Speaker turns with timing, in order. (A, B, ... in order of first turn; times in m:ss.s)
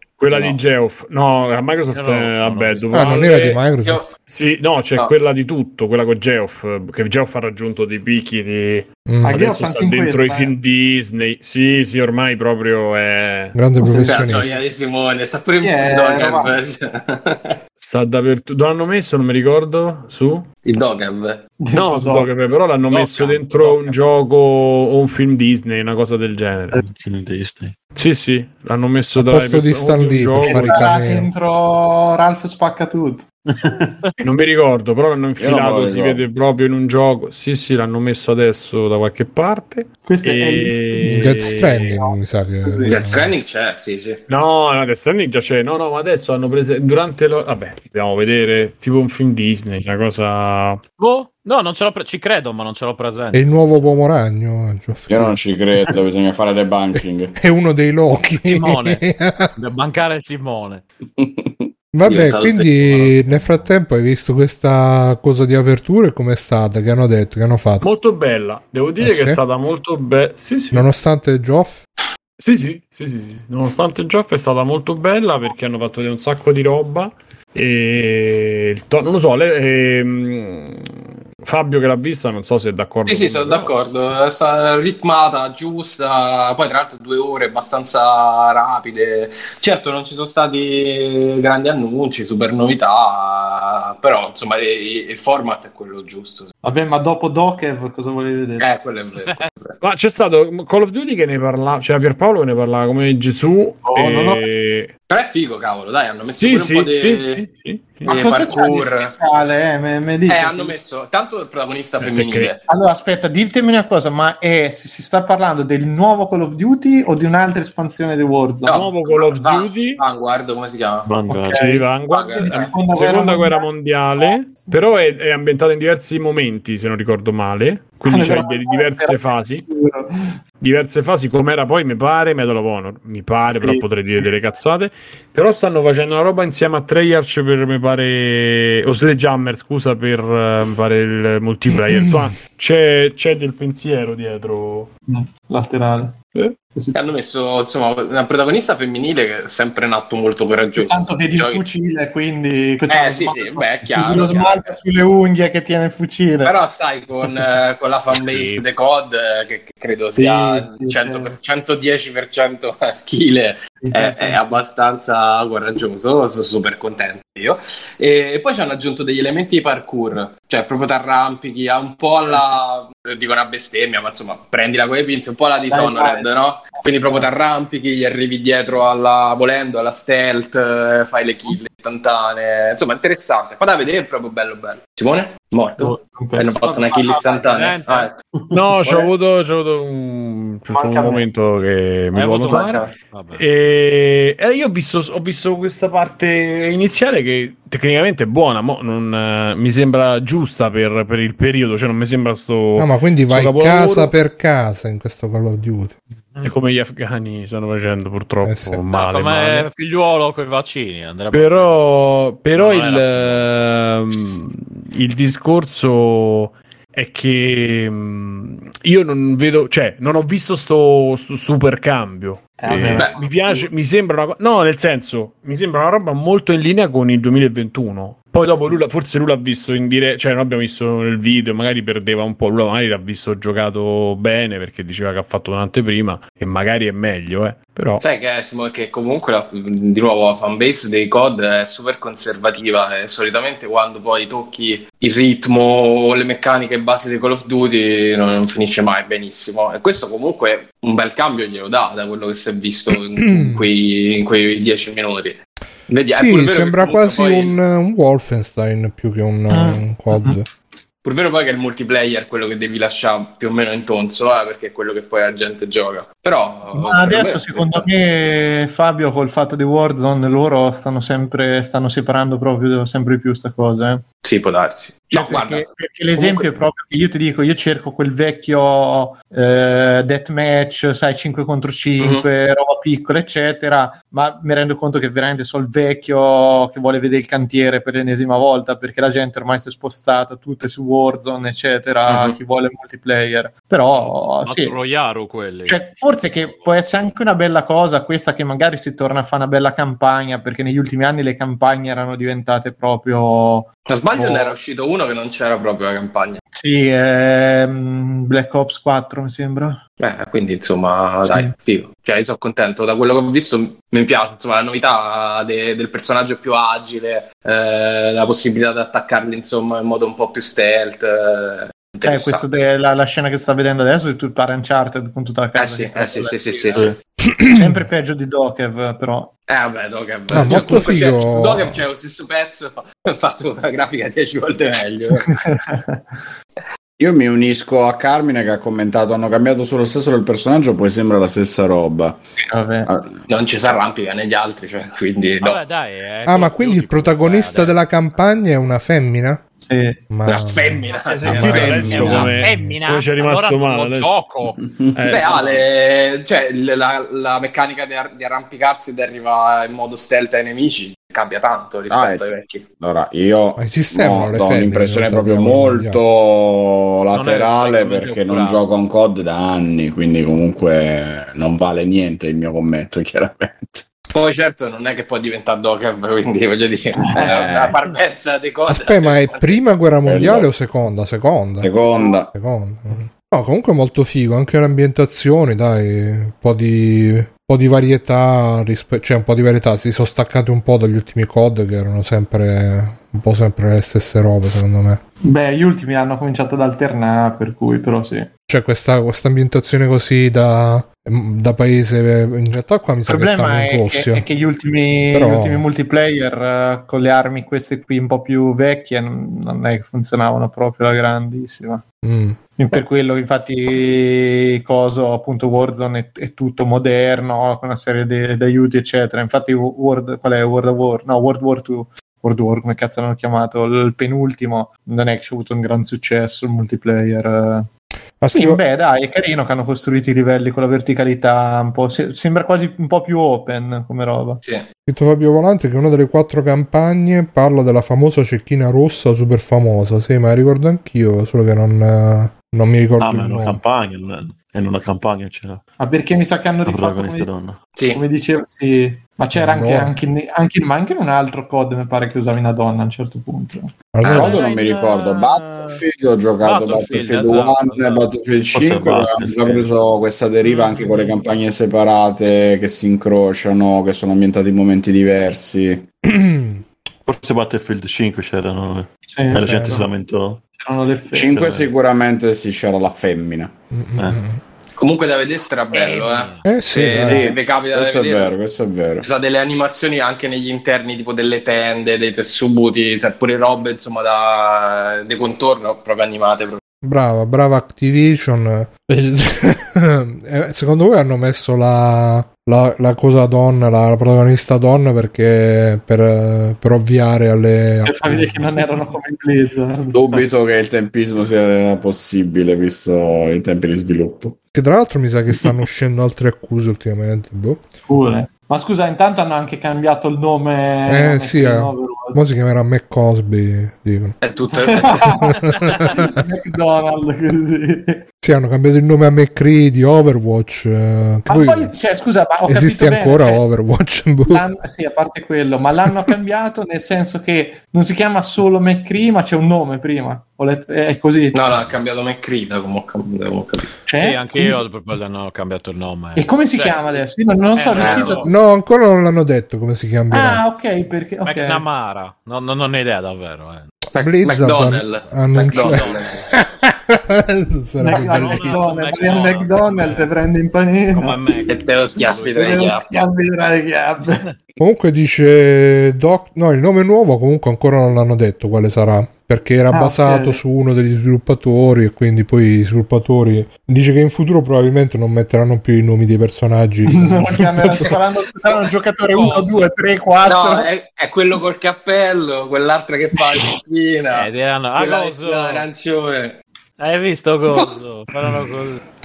0:00.2-0:03.6 A
0:00.3-0:00.6 B
0:01.9-0:03.0 C
0:02.9-0:04.0 D
0:04.3-0:13.6 A
0:09.1-0:09.4 D
0:09.2-0:10.5 E
0:13.6-0:14.5 D
0:13.8-0:14.3 E
0:14.0-0:17.5 F
0:15.6-0:16.6 E
0:17.8-0:20.5 A
0:20.6-0:21.5 F
0:21.6-0:22.3 E
0:21.7-0:26.8 A
0:22.9-0:24.0 C
0:26.9-0:27.8 G
0:28.0-0:30.9 A
0:29.2-0:31.3 D
0:30.4-0:33.3 E
0:33.5-0:33.9 G
0:34.2-0:41.9 A
0:35.4-0:36.2 B
0:40.0-0:43.1 E
0:41.0-0:43.3 D
0:42.9-0:44.2 F
0:44.3-0:50.8 A
0:51.0-0:54.0 C
0:53.3-0:56.0 D
0:55.1-0:57.4 B
0:57.0-0:59.5 D
0:58.4-0:59.0 C
0:59.6-1:00.8 C
1:01.2-1:01.7 B
1:01.9-1:07.9 D
1:02.0-1:02.7 F
1:02.8-1:03.7 C
1:07.8-1:10.9 A
1:09.0-1:09.4 D
1:10.7-1:11.8 D
1:12.4-1:23.7 A
1:23.1-1:36.5 F
1:36.6-1:38.7 E
1:38.6-1:39.8 F
1:39.8-1:44.9 A
1:43.9-1:44.4 E
1:45.1-1:47.4 F
1:46.4-1:48.1 A
1:48.1-1:49.2 F
1:48.1-1:50.8 E
1:50.3-1:52.6 F
1:52.0-1:52.5 A
1:52.7-1:58.9 E
1:58.7-2:01.1 F
1:58.7-2:00.0 A
2:01.0-2:01.7 G
2:01.3-2:01.8 E
2:01.6-2:09.6 A
2:02.0-2:02.9 F
2:02.4-2:03.6 E
2:04.2-2:04.8 E
2:08.1-2:10.4 E
2:10.6-2:24.9 A
2:13.5-2:14.3 E
2:25.1-2:26.2 E
2:26.9-2:31.6 F
2:30.8-2:36.6 E
2:32.9-2:34.8 F
2:36.4-3:08.2 F
2:38.1-2:38.6 A
2:40.2-2:41.4 E
2:43.8-2:44.6 E
2:55.7-2:57.3 E
3:05.8-3:07.5 E
3:07.5-3:08.1 C
3:08.5-3:24.1 A
3:08.8-3:09.1 E
3:10.7-3:11.2 E
3:12.1-3:13.4 C
3:12.5-3:12.9 E
3:22.8-3:26.0 D
3:26.4-3:29.7 A
3:28.4-3:28.8 D
3:28.9-3:31.8 C
3:31.3-3:58.0 A
3:32.6-3:33.6 C
3:42.6-3:43.1 E
3:42.9-3:43.6 F
3:58.0-4:17.6 F
4:13.3-4:13.6 D
4:16.1-4:20.5 D
4:19.5-4:20.4 E
4:21.0-4:27.8 F
4:26.8-4:34.1 E
4:34.2-4:36.6 F
4:35.1-4:54.8 E
4:42.0-4:42.3 F
4:53.9-4:56.7 C
4:55.7-5:04.6 E
5:03.9-5:06.4 F
5:06.5-5:09.8 E
5:10.0-5:22.4 F
5:22.0-5:26.8 E
5:25.6-5:26.9 F
5:26.7-5:27.0 G
5:27.3-5:27.9 D
5:27.5-5:29.3 E
5:29.5-5:35.3 F
5:30.3-5:31.8 D
5:30.3-5:30.7 E
5:35.3-5:36.0 E
5:37.0-5:42.2 B
5:42.5-5:42.9 E
5:42.8-5:43.2 B
5:43.3-5:45.6 F
5:45.4-5:47.8 C
5:46.3-5:49.4 D
5:49.6-5:50.1 E
5:50.1-5:52.8 D
5:50.2-5:52.1 F
5:51.1-5:54.1 A
5:51.9-5:52.3 B
5:52.4-5:54.6 C
5:54.6-5:55.0 B
5:55.0-5:55.4 A
5:55.1-6:02.7 F
6:01.9-6:02.3 B
6:02.8-6:13.8 B
6:03.6-6:06.0 D
6:07.1-6:08.6 C
6:14.1-6:19.6 F
6:17.2-6:17.5 E
6:17.2-6:17.8 B
6:18.7-6:35.0 D
6:20.0-6:20.5 B
6:21.6-6:22.3 B
6:35.3-6:38.3 E
6:38.5-6:44.2 D
6:43.1-6:51.8 E
6:45.1-6:45.6 D
6:52.0-6:52.4 D
6:52.6-7:07.7 E
7:08.2-7:08.6 D
7:08.3-7:14.4 E
7:14.9-7:23.6 D
7:23.0-7:25.6 G
7:25.8-7:27.3 E
7:26.6-7:27.6 G
7:27.8-7:28.0 F
7:28.0-7:33.8 E
7:29.4-7:29.9 D
7:33.9-7:34.4 D
7:34.0-7:45.9 B
7:34.0-7:35.8 C
7:36.4-7:38.1 C
7:38.5-7:39.7 G
7:46.1-7:46.6 D
7:47.0-7:50.4 G
7:49.1-7:49.9 E
7:49.3-7:49.8 D
7:50.6-7:51.3 E
7:51.2-7:53.5 B
7:51.3-7:51.7 G
7:53.7-7:54.4 D
7:54.0-7:54.2 G
7:54.8-7:58.3 F
7:55.7-7:56.5 C
7:56.4-7:57.4 D
7:57.0-7:59.0 B
7:59.0-8:06.6 F
8:06.8-8:18.6 D
8:17.9-8:20.0 E
8:19.9-8:24.4 B
8:24.5-8:27.7 D
8:27.9-8:32.2 E
8:30.9-8:34.2 D
8:34.2-8:35.3 F
8:34.6-8:38.0 E
8:35.7-8:36.1 D
8:38.2-8:41.7 D
8:41.3-8:43.4 E
8:42.5-8:44.4 D
8:44.3-8:51.4 E
8:45.8-8:46.1 D
8:51.3-8:53.7 F
8:53.8-8:54.6 E
8:54.0-8:57.0 C
8:56.2-8:58.3 E
8:57.6-8:58.3 C
8:57.7-8:58.3 F
8:58.3-9:00.4 D
9:00.1-9:01.6 E
9:01.2-9:03.7 C
9:04.0-9:06.2 F
9:04.0-9:08.6 D
9:05.3-9:06.3 C
9:07.8-9:11.4 E
9:07.9-9:10.1 C
9:10.9-9:12.6 C
9:11.5-9:12.9 F
9:12.3-9:14.2 E
9:14.6-9:27.9 D
9:19.7-9:20.4 E
9:26.9-9:30.7 E
9:29.1-9:29.7 C
9:30.2-9:36.4 F
9:33.2-9:33.5 E
9:34.1-9:35.7 C
9:36.8-9:38.8 C